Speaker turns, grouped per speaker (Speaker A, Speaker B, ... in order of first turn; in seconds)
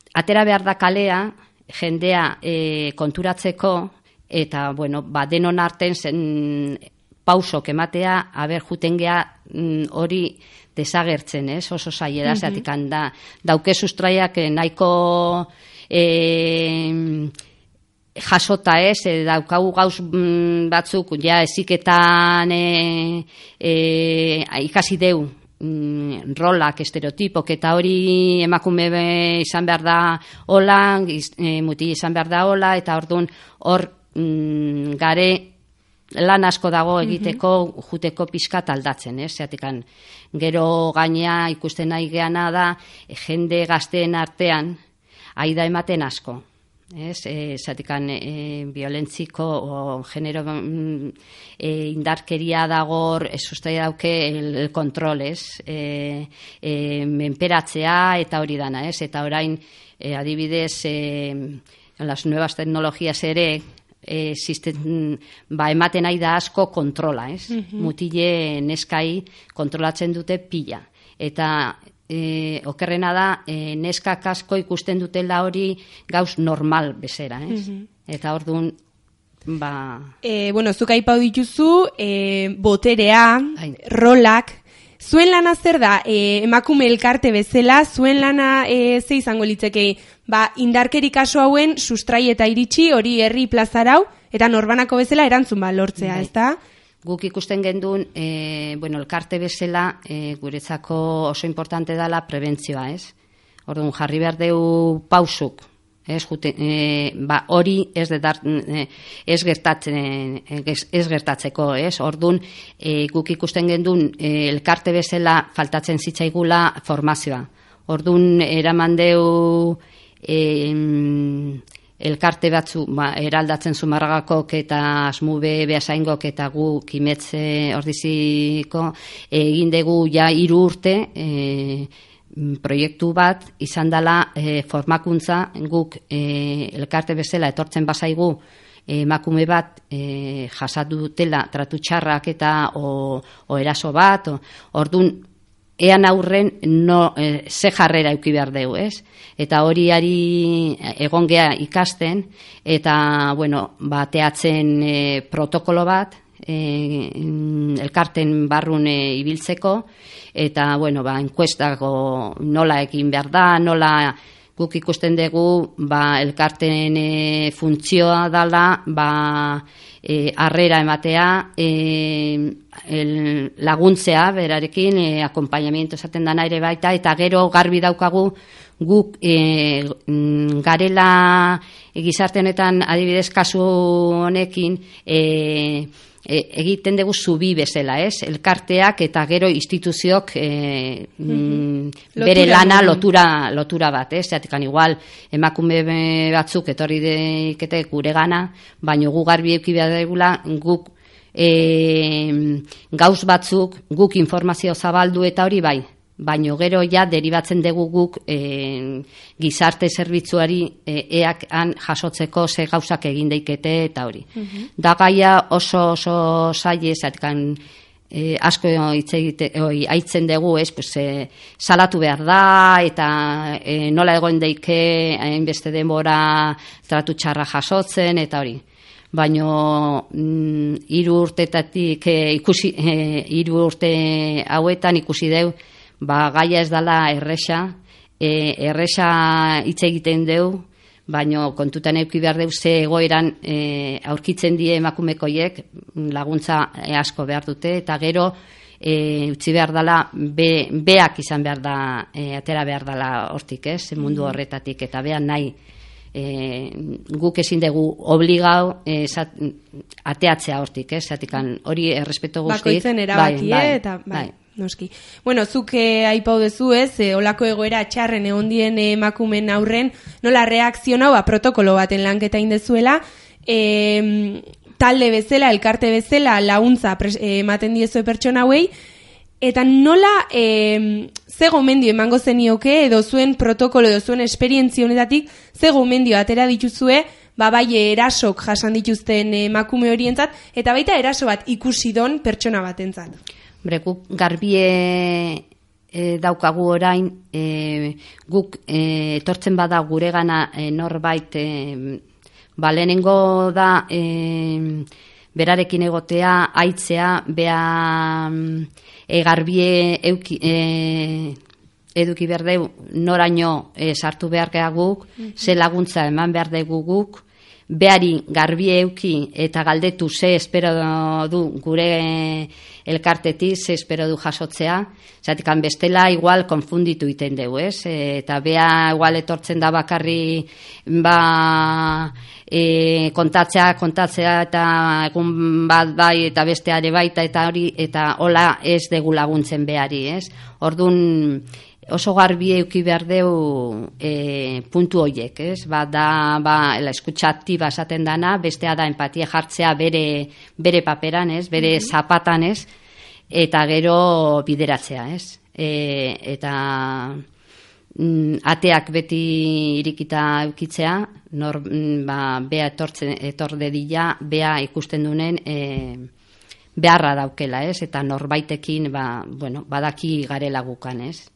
Speaker A: 0.1-17.3, 18.2-35.5, 36.1-44.8, 45.4-78.8, 79.5-80.1, 96.0-96.3, 97.0-103.1, 103.7-145.2, 145.8-217.6, 218.1-228.6, 229.1-255.5, 256.1-264.3, 293.6-302.0, 302.6-311.4, 311.9-352.7, 353.3-357.2, 357.9-366.1, 366.8-371.3
Speaker B: 12.2-12.6, 37.0-37.4, 67.5-67.9, 77.5-77.8, 80.2-96.6, 191.3-193.0, 214.4-214.7, 254.0-254.4, 262.4-278.7, 279.4-293.2